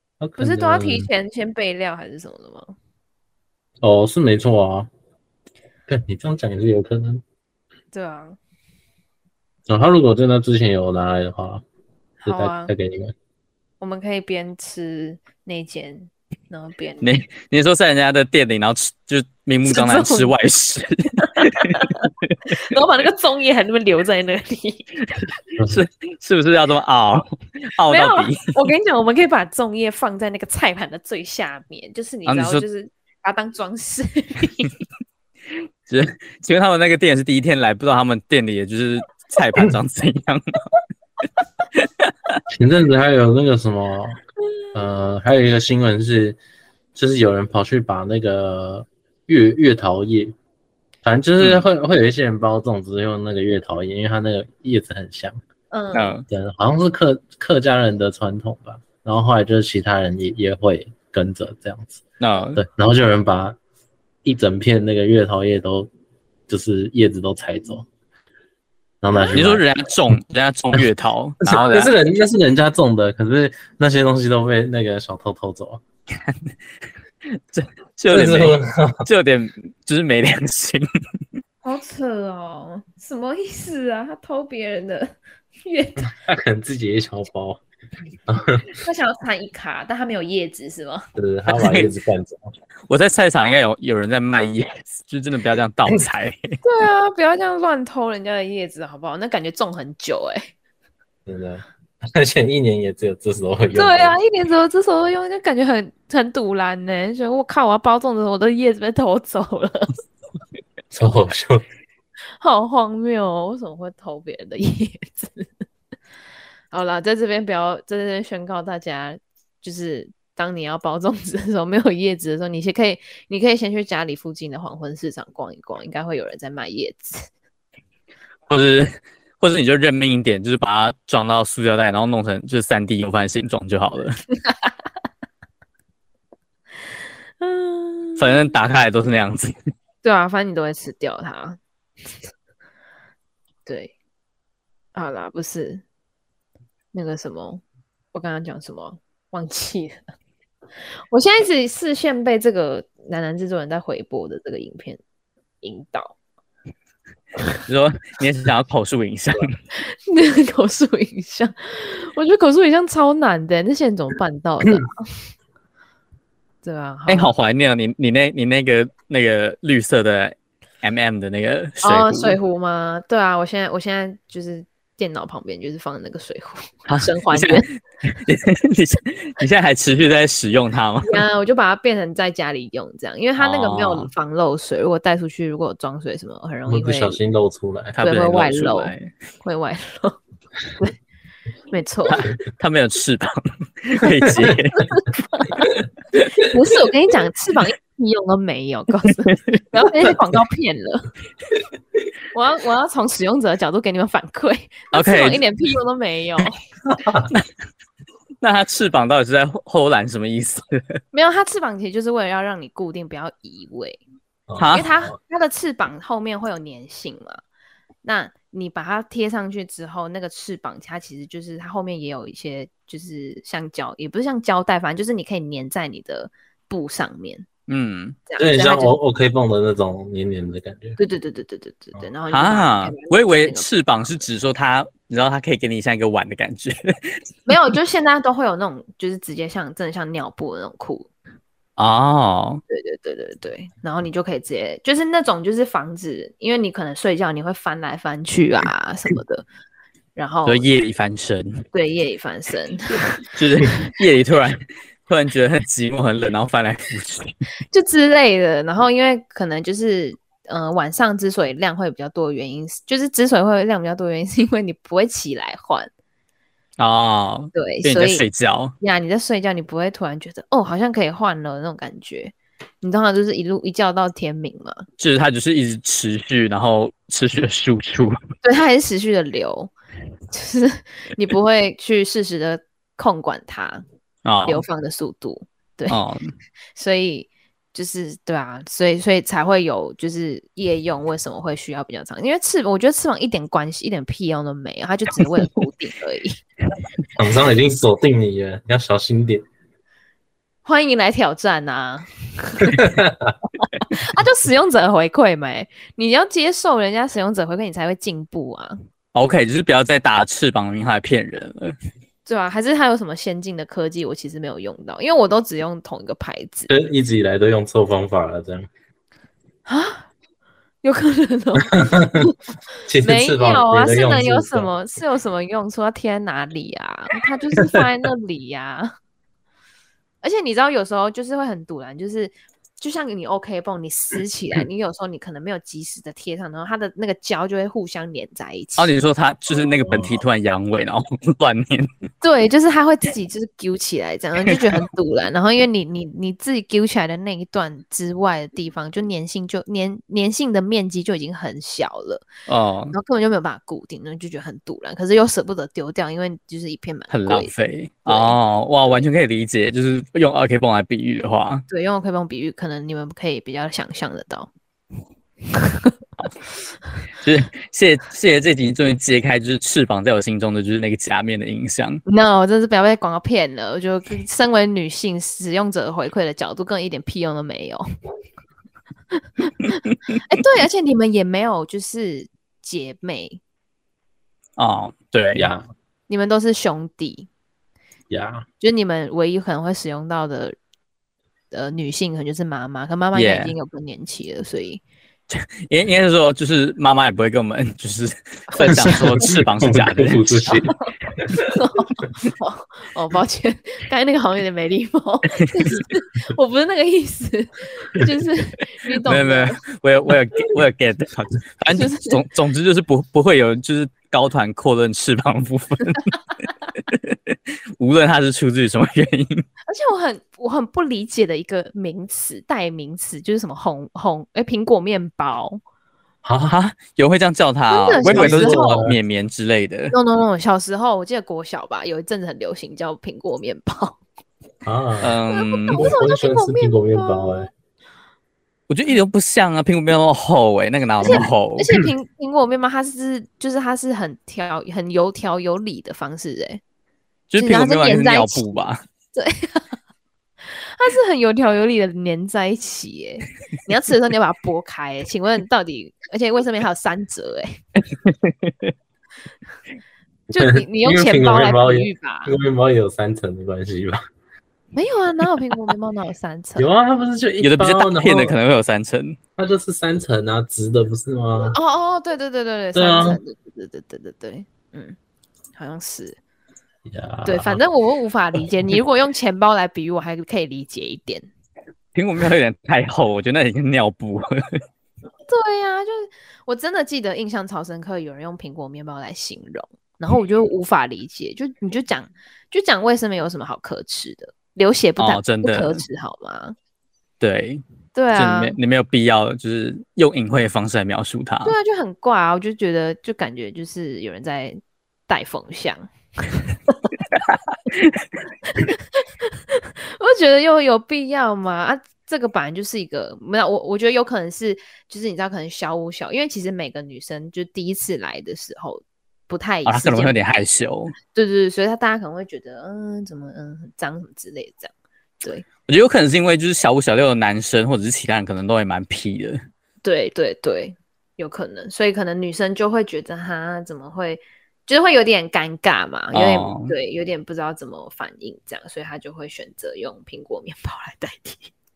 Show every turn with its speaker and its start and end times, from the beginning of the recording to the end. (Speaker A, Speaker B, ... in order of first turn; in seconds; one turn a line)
Speaker A: 0.2-1.1
Speaker B: 0.4-2.7
Speaker A: 3.8-4.9
Speaker A: 5.9-7.2
Speaker B: 7.9-8.4
Speaker A: 9.7-11.6
Speaker B: 12.2-12.7
Speaker A: 12.2-13.1
Speaker B: 13.8-17.2
Speaker C: 17.0-22.4
Speaker B: 19.6-20.3
Speaker B: 21.2-24.9
Speaker C: 25.6-28.5
Speaker B: 27.9-34.7
Speaker C: 32.2-32.6
Speaker C: 35.9-40.6
Speaker C: 41.8-42.3
Speaker A: 42.5-44.2
Speaker A: 44.7-46.4
Speaker A: 46.9-50.4
Speaker A: 51.0-55.4
Speaker B: 55.7-56.1
Speaker C: 55.9-56.2
Speaker A: 56.3-62.0
Speaker C: 62.2-62.6
Speaker A: 62.5-63.6
Speaker A: 64.2-65.9
Speaker A: 66.5-67.9
Speaker A: 69.0-69.6
Speaker C: 69.3-71.9
Speaker A: 71.4-75.8
Speaker C: 76.2-76.5
Speaker C: 77.5-80.9
Speaker A: 78.1-79.0
Speaker B: 81.6-86.1
Speaker A: 86.1-87.6
Speaker A: 88.3-88.7
Speaker B: 88.7-91.0
Speaker A: 91.2-92.5
Speaker C: 91.5-91.9
Speaker C: 92.9-96.6
Speaker B: 96.6-100.5
Speaker A: 101.2-104.2
Speaker B: 103.7-109.9
Speaker A: 110.9-111.6
Speaker B: 112.4-115.5
Speaker B: 116.7-127.3
Speaker C: 128.5-134.2
Speaker B: 137.4-138.5
Speaker C: 138.2-139.5
Speaker B: 140.0-141.6
Speaker B: 143.7-143.9
Speaker B: 144.9-145.8
Speaker B: 146.9-147.6
Speaker B: 148.1-150.0
Speaker B: 151.1-155.0
Speaker B: 155.6-156.2
Speaker C: 157.7-159.5
Speaker B: 160.1-165.0
Speaker B: 166.6-167.3
Speaker C: 167.1-172.4
Speaker B: 171.8-177.7
Speaker C: 176.9-181.2
Speaker B: 181.0-187.2
Speaker C: 183.4-184.1
Speaker A: 186.7-188.0
Speaker C: 187.9-189.1
Speaker B: 188.0-190.2
Speaker B: 191.7-192.3
Speaker C: 192.1-194.9
Speaker B: 194.8-195.7
Speaker B: 196.4-201.1
Speaker B: 202.3-206.6
Speaker C: 204.9-205.4
Speaker A: 206.9-207.3
Speaker C: 208.4-211.0
Speaker B: 211.1-214.0
Speaker A: 214.5-215.1
Speaker C: 214.6-214.9
Speaker B: 214.7-217.4
Speaker B: 218.0-227.5
Speaker C: 227.7-228.2
Speaker B: 228.3-228.9
Speaker A: 228.4-231.0
Speaker B: 231.0-233.7
Speaker C: 232.3-237.2
Speaker B: 237.5-241.1
Speaker C: 241.8-242.6
Speaker B: 242.7-249.4
Speaker B: 250.2-250.6
Speaker C: 250.4-251.7
Speaker B: 251.7-253.2
Speaker C: 253.3-257.3
Speaker B: 257.7-265.9
Speaker C: 266.8-268.7
Speaker B: 267.5-268.2
Speaker B: 268.8-274.9
Speaker C: 275.0-278.2
Speaker B: 278.4-279.7
Speaker B: 280.3-283.8
Speaker C: 284.2-284.6
Speaker B: 284.4-286.0
Speaker C: 285.9-286.3
Speaker B: 286.8-296.4
Speaker A: 297.1-299.4
Speaker B: 300.6-302.9
Speaker A: 302.7-303.3
Speaker B: 303.8-308.8
Speaker C: 309.1-311.8
Speaker B: 312.3-316.7
Speaker A: 316.7-318.7
Speaker B: 319.6-320.1
Speaker B: 320.8-322.4
Speaker A: 321.8-322.3
Speaker A: 322.9-324.7
Speaker B: 323.0-328.9
Speaker B: 330.2-338.9
Speaker C: 338.8-341.9
Speaker A: 339.8-340.2
Speaker B: 342.2-352.3
Speaker C: 352.5-352.9
Speaker B: 352.9-357.5
Speaker C: 357.1-361.6
Speaker B: 358.1-359.1
Speaker B: 361.7-364.5
Speaker B: 365.6-365.9
Speaker C: 367.2-372.0
Speaker B: 372.1-377.8
Speaker B: 379.2-383.4
Speaker C: 384.6-385.4
Speaker A: 385.3-385.6
Speaker B: 386.1-387.3
Speaker A: 388.1-388.4
Speaker B: 388.6-390.6
Speaker B: 391.5-394.8
Speaker C: 393.1-393.5
Speaker C: 395.3-400.6
Speaker B: 398.5-399.1
Speaker A: 398.7-401.5
Speaker B: 401.4-409.6
Speaker C: 409.1-416.2
Speaker B: 411.7-412.2
Speaker C: 416.8-419.4
Speaker B: 419.7-425.6
Speaker A: 426.2-426.5
Speaker C: 426.5-429.9
Speaker B: 427.7-428.9
Speaker A: 428.0-429.0
Speaker B: 429.9-434.0
Speaker A: 434.6-435.2
Speaker C: 435.0-435.8
Speaker B: 435.3-437.5
Speaker A: 435.7-437.5
Speaker C: 438.7-441.7
Speaker B: 441.0-446.6
Speaker C: 447.3-448.8
Speaker B: 447.4-448.5
Speaker B: 449.1-449.8
Speaker B: 450.6-457.6
Speaker C: 458.1-458.7
Speaker B: 460.3-462.3
Speaker A: 460.4-464.0
Speaker B: 464.7-466.7
Speaker A: 466.6-468.4
Speaker C: 467.4-469.2
Speaker A: 469.4-471.6
Speaker B: 471.5-474.9
Speaker A: 472.7-473.2
Speaker B: 475.6-476.2
Speaker A: 476.9-477.6
Speaker B: 477.2-481.3
Speaker C: 481.9-484.6
Speaker B: 485.3-496.6
Speaker C: 495.0-495.8
Speaker C: 497.2-497.6
Speaker B: 497.9-498.6
Speaker C: 498.1-501.6
Speaker B: 501.4-506.9
Speaker C: 507.7-508.1
Speaker B: 508.5-520.5
Speaker C: 519.6-520.9
Speaker B: 521.1-524.7
Speaker C: 525.7-529.4
Speaker B: 529.8-541.5
Speaker C: 536.1-536.7